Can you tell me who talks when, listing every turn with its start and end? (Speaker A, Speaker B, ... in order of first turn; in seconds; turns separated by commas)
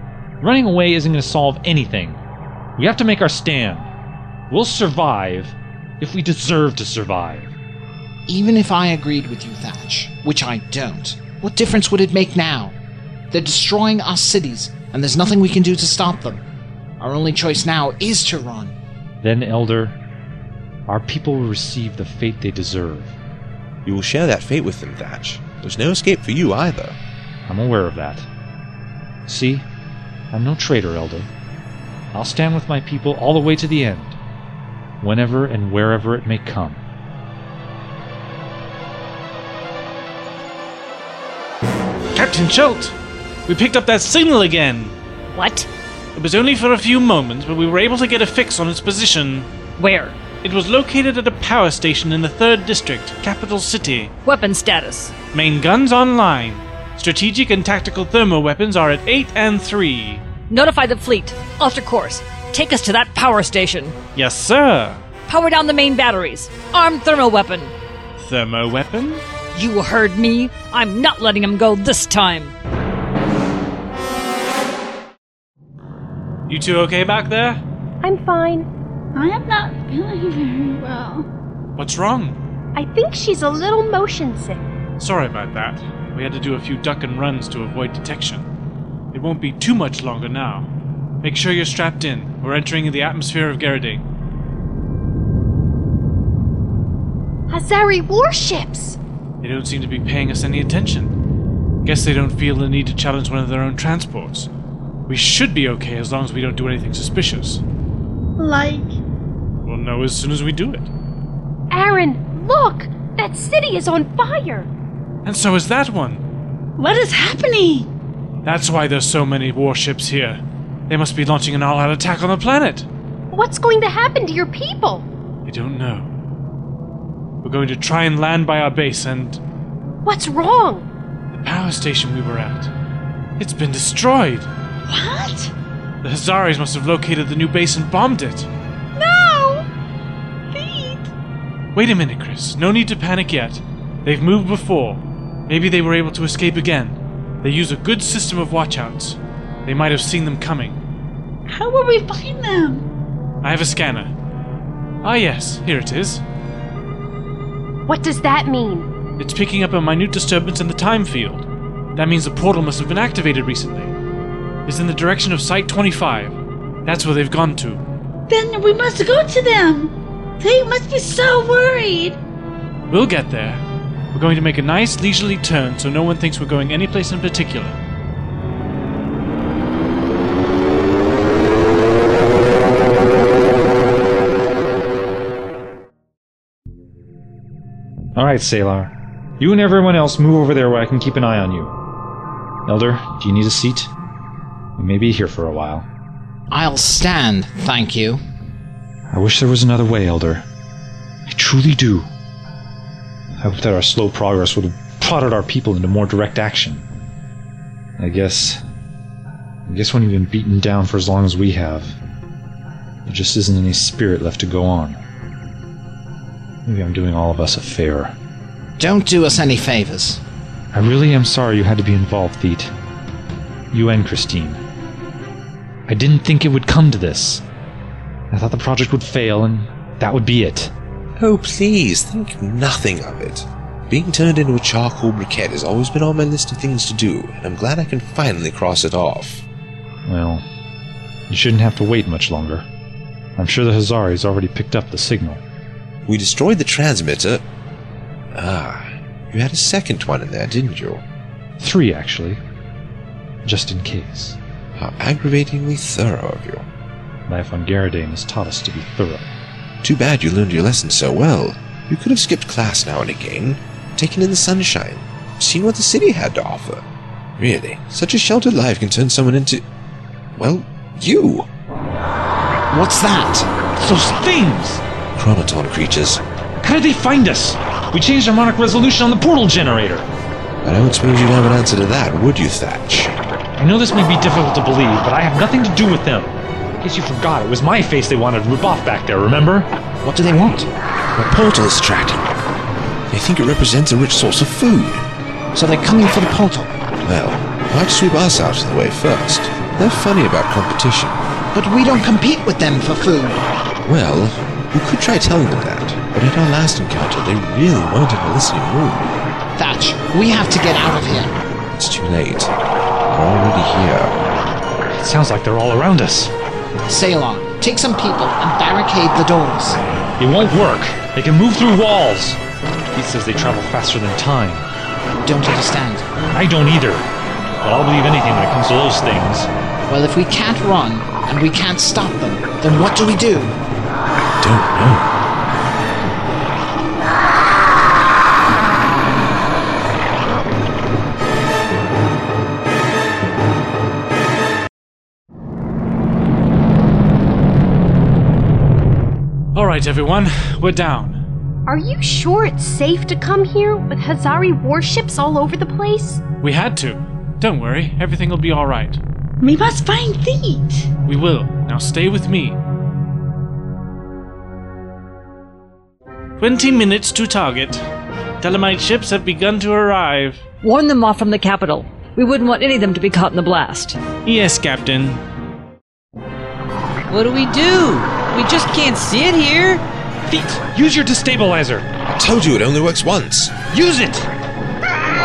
Speaker A: 0.4-2.2, Speaker A: 2.8-3.9, Speaker A: 4.5-7.5, Speaker B: 8.3-12.8, Speaker B: 13.3-16.4, Speaker B: 17.0-18.8, Speaker A: 19.2-20.0, Speaker A: 20.9-23.1, Speaker C: 23.9-27.0, Speaker A: 27.5-28.3, Speaker A: 29.3-29.7, Speaker A: 30.3-31.3, Speaker A: 32.1-34.2, Speaker A: 35.0-36.8, Speaker D: 42.1-42.9, Speaker D: 43.5-45.0, Speaker E: 45.3-45.7, Speaker D: 46.2-49.5, Speaker E: 49.8-50.2, Speaker D: 50.4-54.1, Speaker E: 54.2-55.1, Speaker D: 55.3-60.2, Speaker E: 60.5-64.0, Speaker D: 64.2-65.0, Speaker E: 65.3-67.7, Speaker D: 68.2-69.2, Speaker E: 69.5-72.5, Speaker D: 76.5-77.6, Speaker F: 78.0-78.7, Speaker G: 79.1-81.3, Speaker D: 81.8-82.4, Speaker F: 82.8-84.7, Speaker D: 85.0-88.5, Speaker D: 89.1-90.7, Speaker D: 91.2-94.0, Speaker F: 97.5-99.0, Speaker D: 99.4-101.2, Speaker D: 101.8-104.5, Speaker D: 105.1-107.6, Speaker G: 108.4-108.9, Speaker D: 109.7-110.9, Speaker F: 111.7-114.7, Speaker D: 115.2-116.2, Speaker G: 116.8-117.9, Speaker D: 118.4-122.9, Speaker F: 123.3-125.1, Speaker D: 125.5-126.1, Speaker D: 127.4-129.4, Speaker F: 130.0-130.9, Speaker D: 131.3-132.7, Speaker D: 133.4-134.5, Speaker G: 134.9-135.5, Speaker D: 136.0-138.5, Speaker G: 139.0-139.7, Speaker G: 140.5-141.1, Speaker D: 141.8-150.8, Speaker G: 151.5-152.9, Speaker D: 153.4-154.1, Speaker D: 155.0-156.2, Speaker F: 157.9-158.9, Speaker D: 159.2-163.9, Speaker D: 164.7-167.8, Speaker G: 168.3-172.2, Speaker D: 172.9-173.6, Speaker D: 174.1-177.8, Speaker A: 188.2-191.7, Speaker A: 192.7-193.9, Speaker A: 194.8-195.9, Speaker B: 196.5-198.2, Speaker A: 199.1-200.5, Speaker A: 201.3-202.1, Speaker A: 203.4-206.9, Speaker A: 208.0-208.6, Speaker A: 209.7-212.0, Speaker A: 213.1-215.0, Speaker A: 216.7-218.2, Speaker B: 218.8-220.2, Speaker A: 220.7-222.7, Speaker A: 223.7-224.6, Speaker A: 225.9-227.4, Speaker A: 228.3-230.7, Speaker C: 231.2-239.5, Speaker A: 240.1-240.4, Speaker A: 241.3-242.7, Speaker A: 243.4-245.4, Speaker C: 246.1-247.4, Speaker C: 248.3-251.0, Speaker A: 251.6-252.4, Speaker A: 253.4-254.4, Speaker C: 254.8-256.7, Speaker A: 257.3-259.3, Speaker C: 259.8-266.9, Speaker C: 267.4-269.6, Speaker C: 270.4-271.5, Speaker B: 272.7-273.5, Speaker A: 273.8-274.8, Speaker C: 275.2-276.2, Speaker A: 276.6-280.1, Speaker C: 280.6-283.1, Speaker A: 283.6-289.7, Speaker B: 290.0-290.7, Speaker C: 291.2-292.3, Speaker C: 293.1-295.1, Speaker B: 295.5-296.7, Speaker C: 297.0-301.2, Speaker B: 301.5-303.4, Speaker C: 303.9-309.1, Speaker B: 309.6-311.3, Speaker C: 311.8-312.5, Speaker C: 313.1-314.2, Speaker A: 314.9-316.3, Speaker B: 316.9-319.8, Speaker A: 320.2-322.4, Speaker A: 322.9-324.7, Speaker B: 325.2-326.1, Speaker A: 326.3-327.1, Speaker A: 327.6-329.5, Speaker B: 329.9-333.6, Speaker C: 334.4-335.1, Speaker D: 349.6-351.2, Speaker F: 351.7-356.2, Speaker D: 356.4-359.0, Speaker G: 359.4-360.9, Speaker D: 361.1-362.6, Speaker D: 366.4-367.8, Speaker D: 368.4-370.4, Speaker E: 370.6-374.0, Speaker D: 374.2-375.2, Speaker H: 377.1-379.8, Speaker A: 380.3-381.9, Speaker C: 382.1-383.5, Speaker A: 383.7-384.3